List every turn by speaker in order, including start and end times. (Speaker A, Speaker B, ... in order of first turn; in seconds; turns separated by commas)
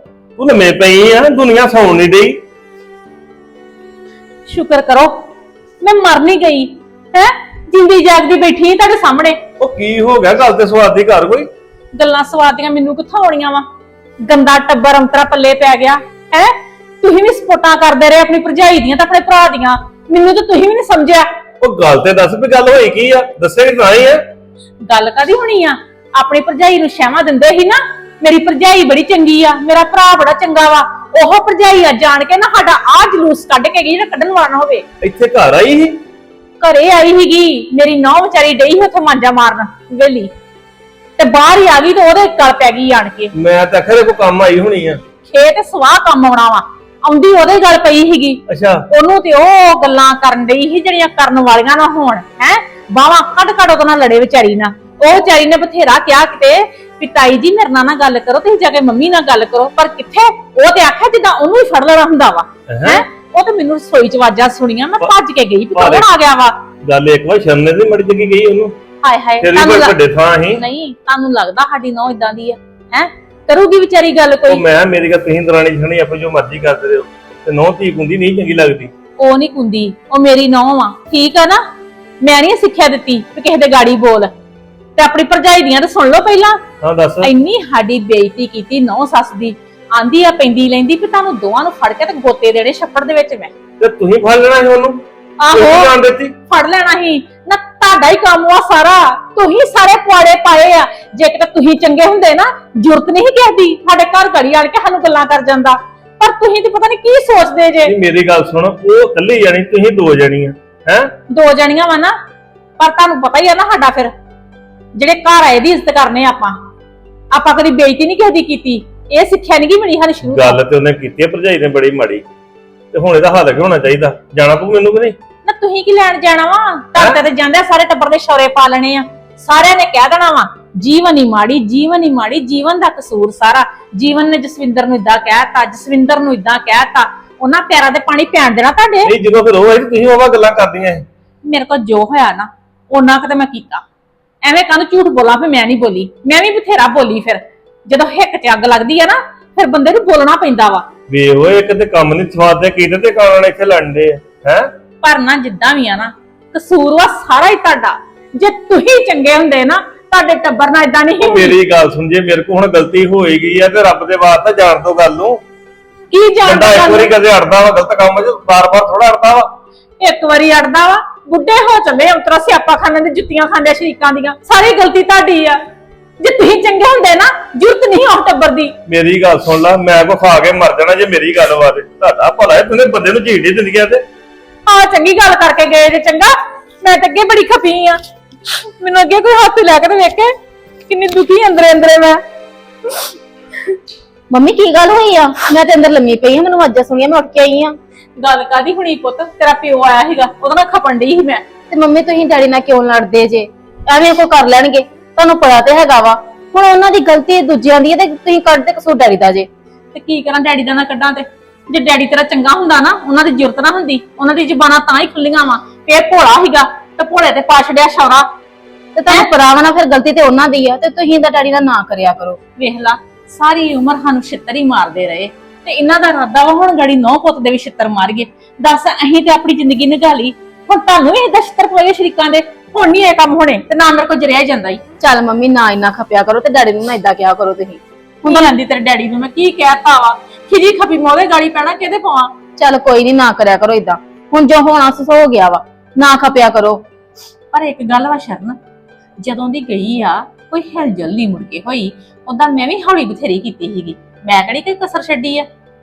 Speaker A: 0.4-2.4, Speaker B: 4.5-5.2, Speaker B: 5.8-9.4, Speaker A: 9.6-11.5, Speaker B: 12.0-13.7, Speaker B: 14.2-21.3, Speaker A: 21.6-24.2, Speaker B: 24.8-34.9, Speaker A: 35.0-36.0, Speaker B: 36.6-40.3, Speaker B: 41.2-43.3, Speaker A: 43.4-45.0, Speaker B: 45.3-66.6, Speaker A: 48.5-48.8, Speaker A: 62.7-63.0, Speaker A: 65.8-66.1, Speaker A: 66.8-68.8, Speaker B: 69.0-70.0, Speaker A: 69.4-70.6, Speaker B: 70.5-74.6, Speaker A: 74.5-78.9, Speaker B: 79.2-81.6, Speaker B: 82.2-84.3, Speaker B: 85.0-86.6, Speaker A: 86.8-87.3, Speaker B: 87.2-93.5, Speaker A: 93.8-96.3, Speaker B: 95.4-107.9, Speaker A: 107.9-111.1, Speaker B: 111.3-112.2, Speaker B: 112.8-114.1, Speaker B: 115.0-116.6, Speaker B: 117.3-120.6, Speaker A: 120.2-122.2, Speaker A: 122.9-125.2, Speaker B: 125.5-139.1, Speaker A: 139.1-141.1, Speaker B: 141.5-143.8, Speaker B: 144.4-150.9, Speaker A: 151.1-154.7, Speaker B: 155.0-161.6, Speaker A: 161.2-165.4, Speaker B: 166.1-167.1, Speaker A: 166.4-169.5, Speaker B: 170.0-175.6, Speaker B: 176.2-178.7, Speaker A: 178.9-184.0, Speaker B: 184.7-188.0, Speaker B: 188.7-190.3, Speaker B: 190.9-192.2, Speaker C: 194.3-197.8, Speaker B: 198.2-201.5, Speaker C: 201.7-209.5, Speaker B: 209.9-218.3, Speaker C: 219.0-222.4, Speaker B: 219.1-219.3, Speaker B: 222.6-234.8, Speaker C: 235.0-238.5, Speaker B: 238.2-242.4, Speaker C: 242.6-246.8, Speaker B: 247.5-248.6, Speaker B: 249.2-255.5